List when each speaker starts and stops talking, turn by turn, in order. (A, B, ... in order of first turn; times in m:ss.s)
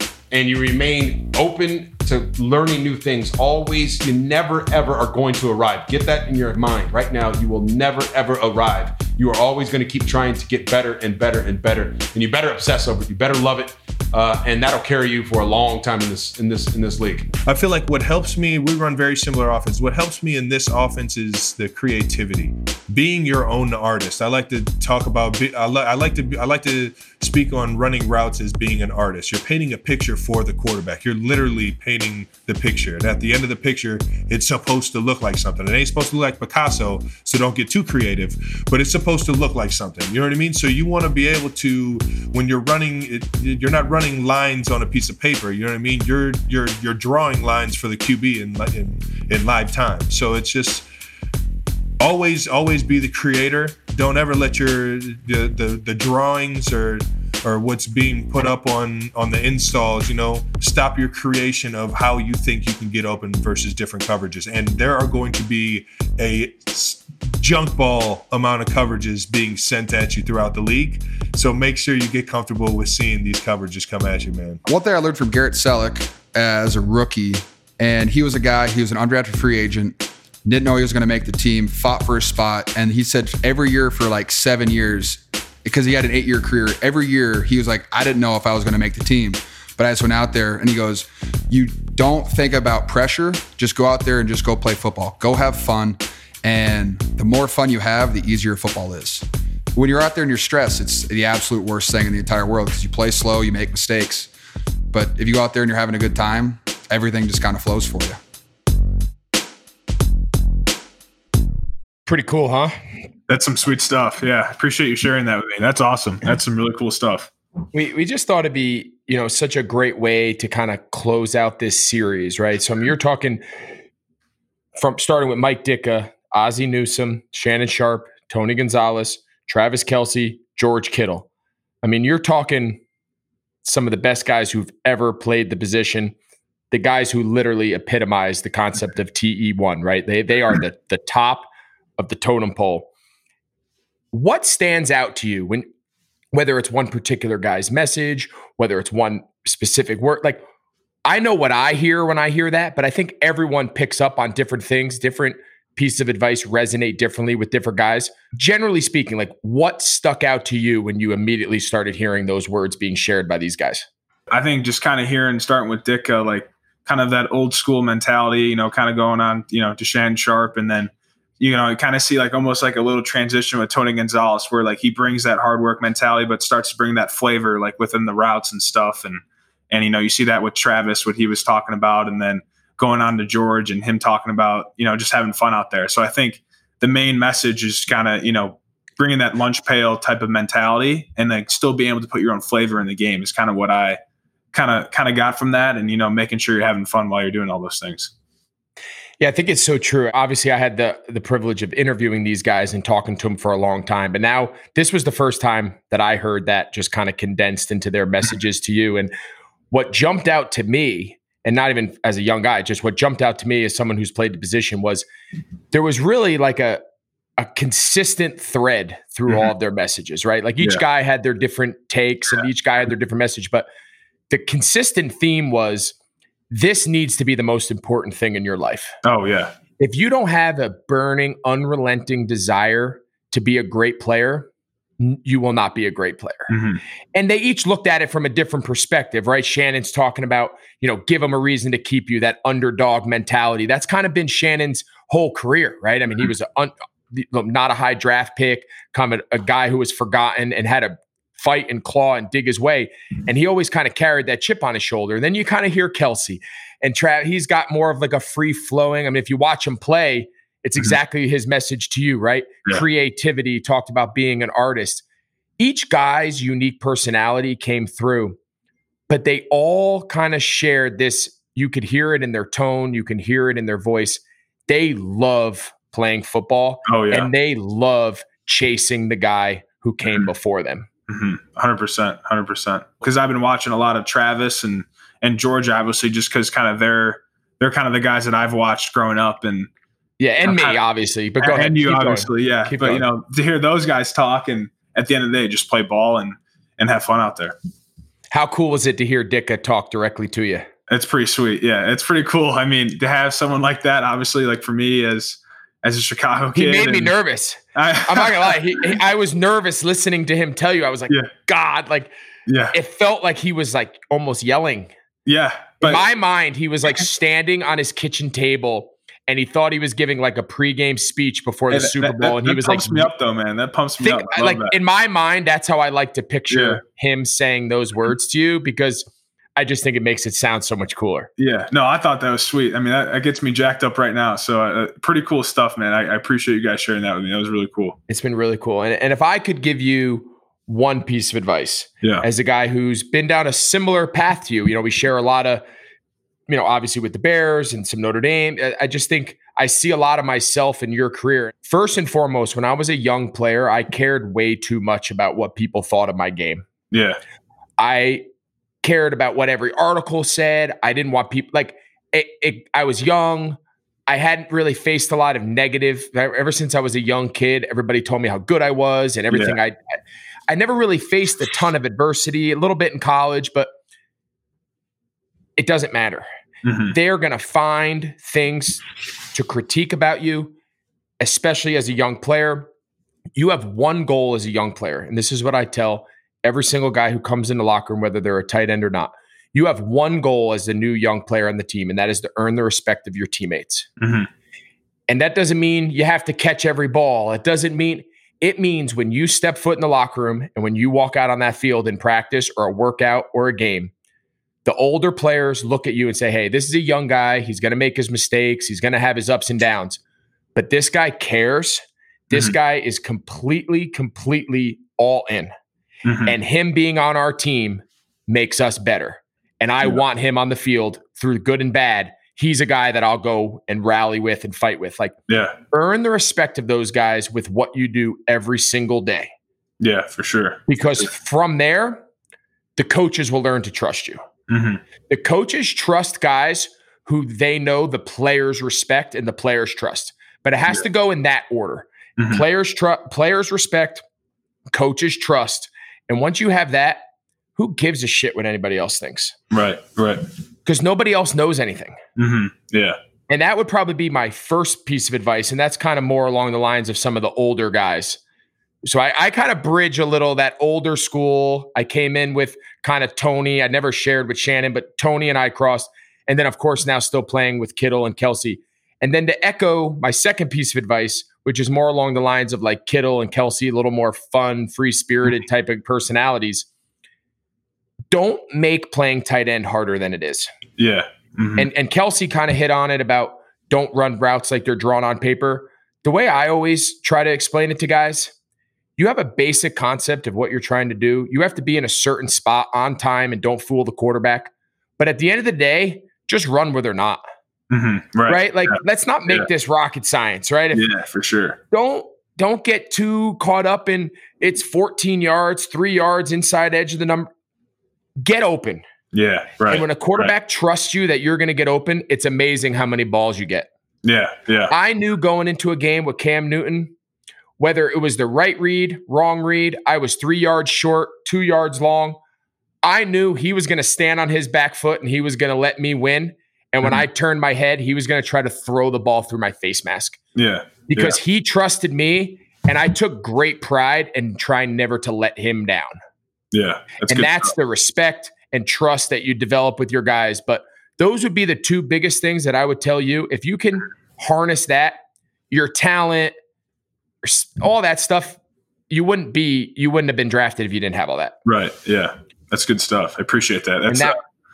0:00.3-0:17.3 A
0:17.4-0:50.8 B
0:52.0-1:14.6 B
1:14.6-1:44.3 C
1:44.9-1:48.2 C
1:52.1-1:52.7 D
1:53.3-1:57.3 E
1:57.7-2:03.4 D
2:04.8-2:11.3 D
2:11.8-2:12.8 D
2:13.6-2:16.1 D
2:16.7-2:21.5 D
2:22.0-2:22.9 D
2:24.1-2:25.6 D
2:26.3-2:30.4 D
2:31.0-2:43.8 D
2:44.3-3:14.0 E
3:14.5-3:18.1 E
3:19.2-3:29.1 D
3:29.7-3:35.0 D
3:35.7-3:36.8 D
3:37.4-3:43.7 D
3:44.3-3:45.9 D
3:46.5-3:49.0 D
3:49.0-3:49.5 E
3:49.8-3:54.5 D
3:55.0-3:56.5 D
3:56.5-3:56.8 E
3:57.1-4:25.0 D
4:25.6-4:28.4 D
4:29.1-4:40.9 D
4:36.9-4:37.3 E
4:41.1-4:49.7 E
4:50.2-4:53.0 D
4:50.4-4:50.8 E
4:51.4-4:57.5 E
4:58.3-5:00.7 D
5:00.9-5:07.1 E
5:06.5-5:12.1 D
5:07.7-5:08.6 E
5:12.5-5:12.7 E
5:12.7-5:14.9 D
5:15.2-5:16.0 E
5:15.8-5:23.1 D
5:21.7-5:24.7 E
5:24.0-5:31.3 D
5:26.5-5:26.8 E
5:31.4-5:38.0 E
5:38.1-5:45.6 D
5:46.5-5:56.6 D
5:56.9-5:57.2 E
5:57.8-5:58.2 D
5:58.8-6:09.8 D
6:09.3-6:09.6 E
6:10.5-6:13.7 D
6:15.6-6:16.2 D
6:16.6-6:16.9 E
6:16.9-6:20.5 D
6:21.2-6:22.7 D
6:23.4-6:33.9 D
6:34.0-6:34.3 E
6:35.1-6:43.9 D
6:44.6-6:50.0 D
6:50.5-6:55.5 D
6:56.0-6:56.3 E
6:56.2-7:05.1 D
7:05.3-7:05.6 E
7:05.7-7:09.3 D
7:09.8-7:11.1 E
7:10.7-7:12.0 D
7:12.8-7:14.2 D
7:14.5-7:14.8 E
7:15.1-7:24.0 D
7:22.2-7:22.4 E
7:24.7-7:27.0 D
7:27.6-7:29.3 D
7:29.5-7:30.2 E
7:30.6-7:32.0 D
7:32.2-7:33.0 E
7:33.3-7:38.2 D
7:38.8-7:56.6 D
7:58.1-8:00.5 D
8:00.8-8:01.7 E
8:01.6-8:08.3 D
8:09.0-8:17.2 D
8:17.7-8:18.8 E
8:18.3-8:20.8 D
8:20.7-8:21.6 E
8:21.7-8:27.3 D
8:28.2-8:28.8 D
8:29.1-8:30.3 E
8:29.7-8:33.7 D
8:34.0-8:34.7 E
8:34.7-8:36.9 D
8:37.6-8:42.2 D
8:42.8-8:50.2 D
8:50.4-8:51.2 E
8:50.9-8:55.9 D
8:56.5-8:57.5 E
8:57.1-9:05.0 D
9:05.5-9:06.3 D
9:07.2-9:08.4 D
9:08.9-9:11.3 D
9:11.4-9:14.2 E
9:13.9-9:14.2 D